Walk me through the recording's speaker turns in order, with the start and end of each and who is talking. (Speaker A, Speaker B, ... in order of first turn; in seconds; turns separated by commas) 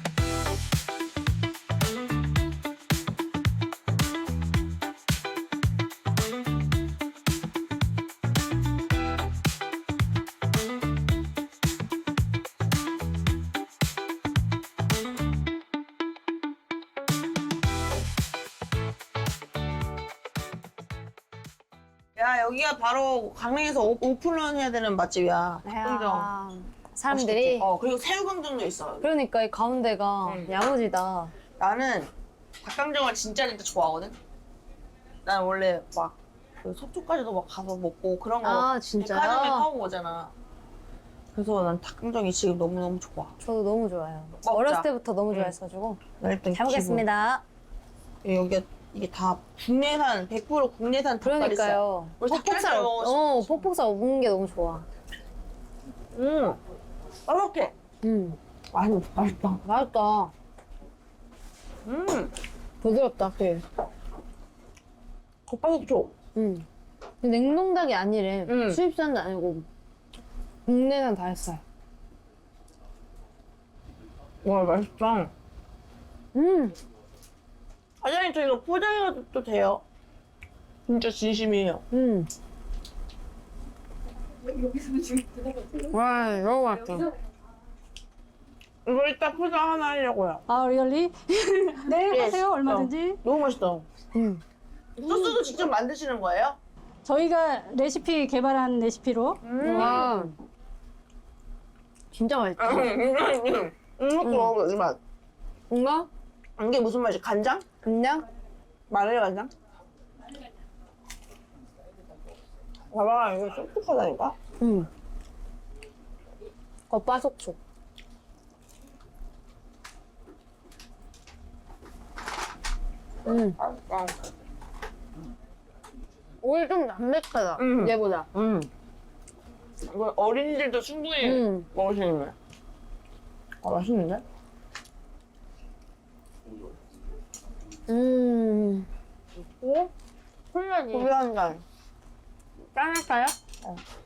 Speaker A: 22.2-26.3, Speaker B: 25.6-27.7, Speaker A: 27.1-29.1, Speaker B: 29.0-31.3, Speaker A: 30.3-30.6, Speaker A: 31.6-32.1, Speaker A: 32.6-34.2, Speaker A: 35.2-40.3, Speaker B: 38.4-39.7, Speaker A: 41.3-43.4, Speaker B: 43.4-46.0, Speaker A: 44.4-45.6, Speaker A: 46.2-47.0, Speaker B: 46.5-47.4, Speaker A: 48.2-53.7, Speaker B: 51.2-54.9, Speaker A: 56.1-56.6, Speaker A: 57.3-57.7, Speaker B: 58.0-58.4, Speaker A: 58.7-59.3, Speaker B: 58.9-60.3, Speaker A: 61.9-62.3, Speaker B: 62.8-63.6, Speaker A: 65.5-66.1, Speaker B: 66.3-66.7, Speaker B: 67.2-69.7, Speaker A: 68.5-68.8, Speaker B: 70.7-71.6, Speaker A: 74.4-75.3, Speaker B: 76.3-76.8, Speaker A: 78.0-79.8, Speaker A: 80.9-81.8, Speaker B: 81.9-82.3, Speaker B: 85.8-87.1, Speaker A: 88.8-90.4, Speaker C: 90.5-93.2, Speaker A: 92.0-93.9, Speaker B: 94.1-94.4, Speaker A: 95.0-96.6, Speaker B: 95.0-95.4, Speaker C: 97.0-100.1, Speaker A: 99.4-100.3, Speaker B: 99.6-100.3, Speaker B: 102.1-102.9, Speaker A: 102.6-105.0, Speaker B: 104.2-104.5, Speaker B: 105.7-106.1, Speaker A: 106.6-107.7, Speaker B: 107.8-108.2, Speaker A: 108.9-109.5, Speaker A: 112.9-114.4, Speaker B: 114.6-114.9, Speaker B: 116.9-117.6, Speaker B: 123.2-123.6, Speaker A: 123.6-124.3, Speaker B: 126.4-128.3, Speaker A: 127.6-128.7, Speaker A: 129.9-132.3, Speaker B: 131.2-131.7, Speaker A: 133.6-134.2, Speaker B: 137.9-138.9, Speaker A: 139.4-139.9, Speaker B: 140.5-141.1, Speaker A: 140.9-141.6, Speaker B: 142.7-143.3